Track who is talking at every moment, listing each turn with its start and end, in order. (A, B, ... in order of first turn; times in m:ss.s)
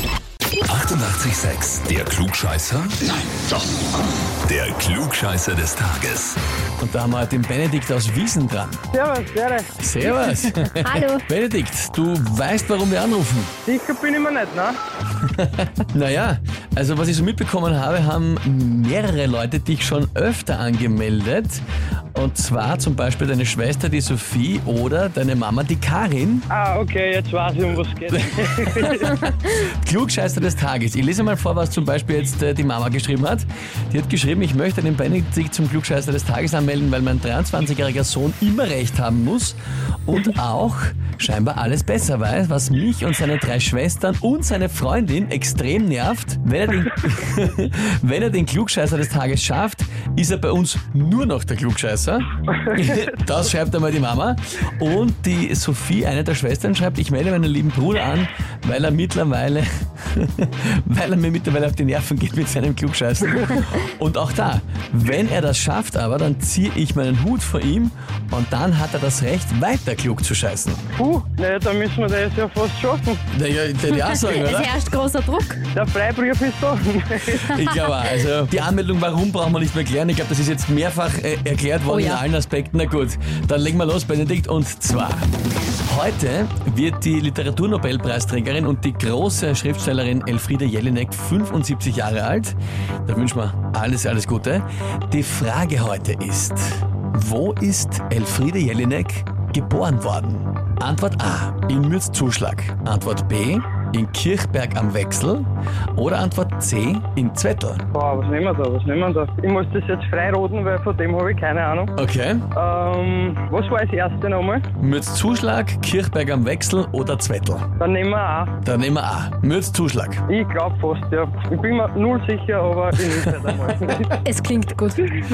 0:00.6-0:03.0 A
0:04.4-0:06.4 A
0:06.8-0:08.8 B
0:08.9-0:09.7 C
0:09.8-0:13.5 B
0:10.7-0:11.2 D
0:13.7-0:14.8 C
0:15.2-0:21.6 B
0:22.1-0:26.5 B
0:26.5-0:29.2 C
0:28.1-1:10.9 B
1:11.0-1:13.2 C
1:13.3-1:14.8 B
1:14.1-1:15.6 D
1:15.7-1:17.6 C
1:17.4-1:25.3 B
1:21.9-1:22.2 D
1:25.8-1:47.9 B
1:47.9-1:51.9 C
1:52.0-1:52.4 B
1:52.6-1:54.6 C
1:54.8-1:57.7 B
1:57.8-1:58.6 C
1:58.6-2:00.2 B
2:00.3-2:04.2 C
2:04.2-2:05.1 D